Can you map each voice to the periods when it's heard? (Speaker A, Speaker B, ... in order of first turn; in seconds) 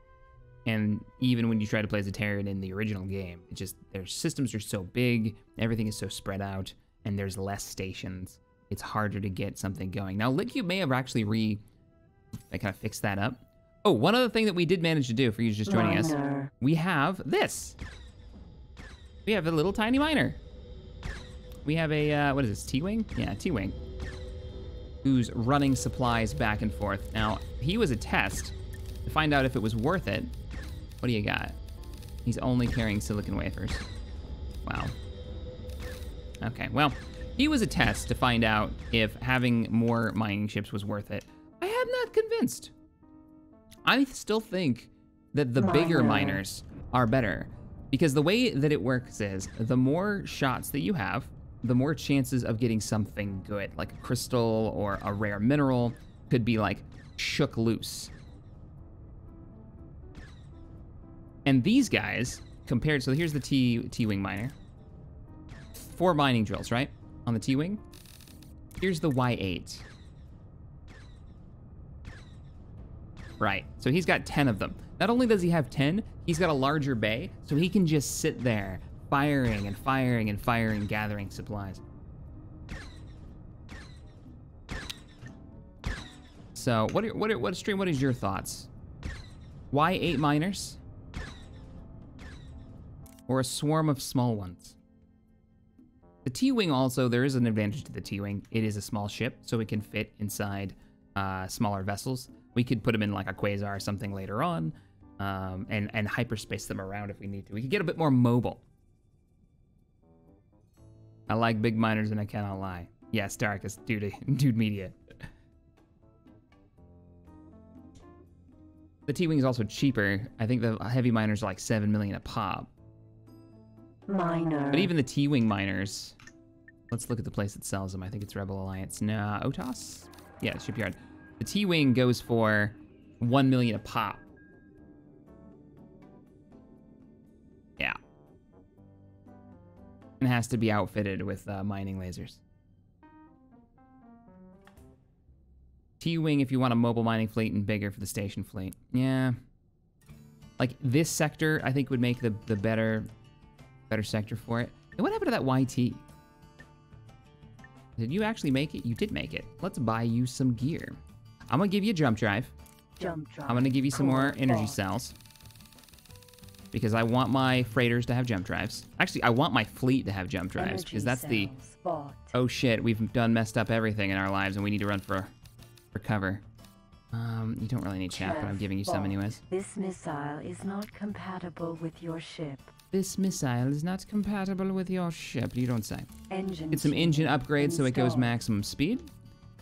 Speaker A: 0.7-11.6, 12.5-17.8, 19.2-20.4, 21.6-23.8, 25.0-30.3, 31.0-31.6, 32.2-33.8, 34.6-34.9, 36.4-42.7, 43.8-58.1, 61.5-64.5, 65.7-67.8, 68.8-69.8, 73.4-81.8, 86.5-88.7, 89.7-90.8, 93.3-94.8, 96.2-108.6, 111.3-115.0, 119.1-122.7, 124.7-126.2, 126.9-134.2, 140.2-142.4, 146.0-149.4, 150.6-153.1, 153.9-156.0, 158.0-161.0, 161.5-162.5, 163.4-165.2, 166.7-171.5, 172.3-175.3, 175.9-176.4, 177.1-179.4, 182.9-186.1, 186.7-189.1
Speaker B: 15.7-16.5, 45.6-46.4, 124.1-124.9, 163.0-164.8, 170.6-172.3, 178.1-182.7, 186.3-188.4